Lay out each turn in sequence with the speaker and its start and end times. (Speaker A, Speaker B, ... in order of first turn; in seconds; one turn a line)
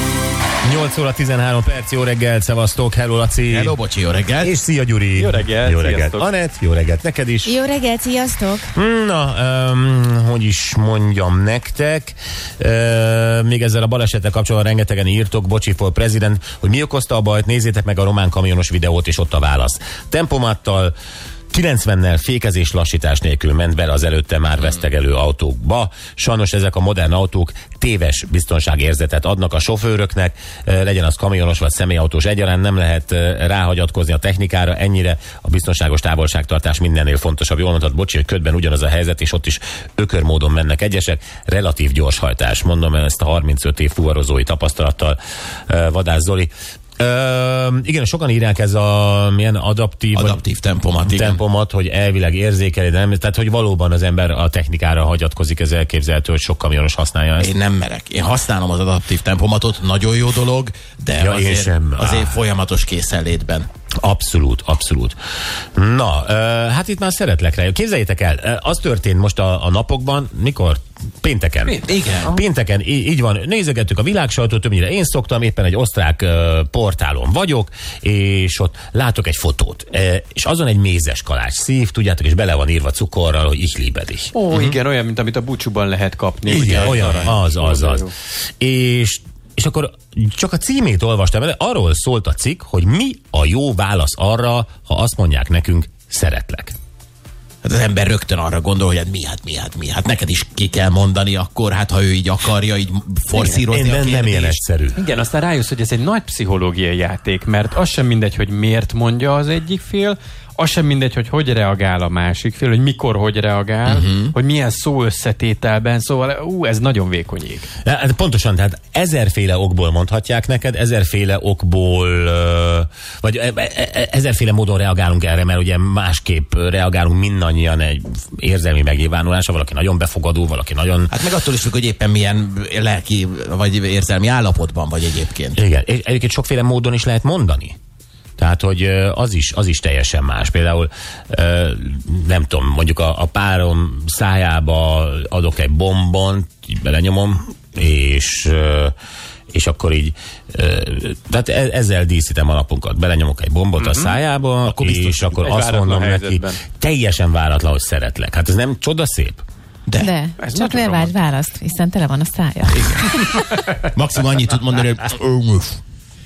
Speaker A: 0.6-3.7
Speaker B: 3.5-4.5
Speaker A: 4.4-7.6
Speaker C: 5.1-6.2
Speaker D: 7.4-8.7
Speaker A: 8.7-20.9
Speaker A: 21.5-45.2
Speaker A: 45.7-50.4
Speaker B: 50.1-51.4
Speaker A: 51.0-57.5
Speaker B: 57.4-63.7
Speaker A: 61.2-62.4
Speaker A: 64.0-65.2
Speaker A: 65.8-84.7
Speaker C: 71.7-72.0
Speaker B: 71.8-72.3
Speaker C: 84.3-88.1
Speaker A: 86.5-88.1
Speaker A: 88.6-96.7
Speaker B: 97.6-104.6
Speaker C: 103.3-103.6
Speaker A: 103.7-105.0
Speaker C: 105.0-117.7
Speaker B: 113.8-114.3
Speaker A: 117.8-131.2
Speaker B: 131.1-135.6
Speaker A: 135.6-137.8
Speaker A: 138.4-148.9
Speaker A: 149.5-159.4
Speaker C: 153.8-154.1
Speaker B: 154.6-155.5
Speaker C: 155.4-156.6
Speaker B: 159.8-160.1
Speaker D: 160.0-163.4
Speaker C: 160.4-161.1
Speaker B: 162.7-165.8